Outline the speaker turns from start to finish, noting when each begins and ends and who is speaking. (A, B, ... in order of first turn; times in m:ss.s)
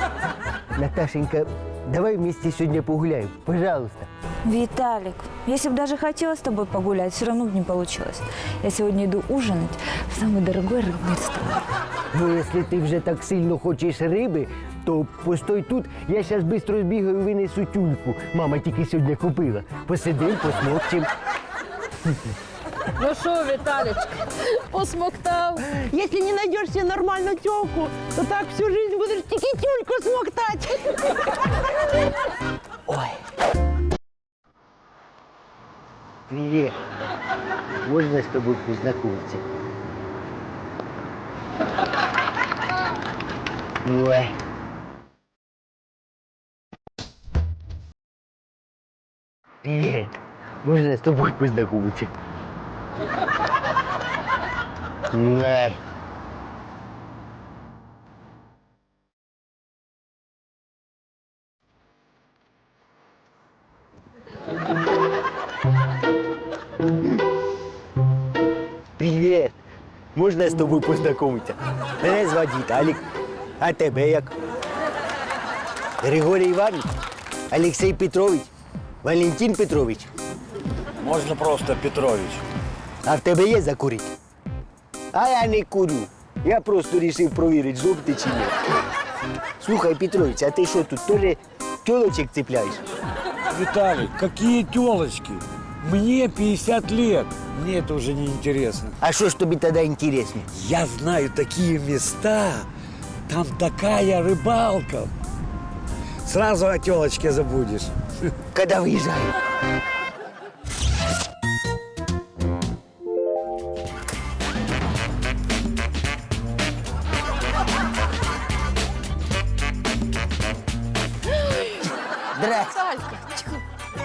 0:00.8-0:04.1 A
0:04.4-0:11.6 B
0:12.1-0:21.1 A
0:23.0-0:25.6 C
0:25.7-0:31.0 D
0:32.9-0:33.2 A
0:36.3-0:36.8 A
0:37.8-0:39.4 A
0:43.8-0:44.4 A
0:49.6-0:52.1 A
0:55.1-0:55.8 A
1:09.0-1:09.6 A
1:10.2-1:13.0 A
1:13.6-1:14.3 A
1:16.0-1:16.9 A
1:17.5-1:18.5 A
1:19.0-1:20.1 A
1:21.0-1:22.4 E
1:23.0-1:24.1 A
1:25.1-1:28.6 A
1:29.6-1:32.8 A
1:33.5-1:39.0 E
1:39.0-1:40.5 A
1:40.5-1:42.7 E
1:43.3-1:45.1 E
1:46.2-1:47.9 E
1:48.5-1:49.3 A
2:02.4-2:02.7 A
2:02.7-2:03.6 C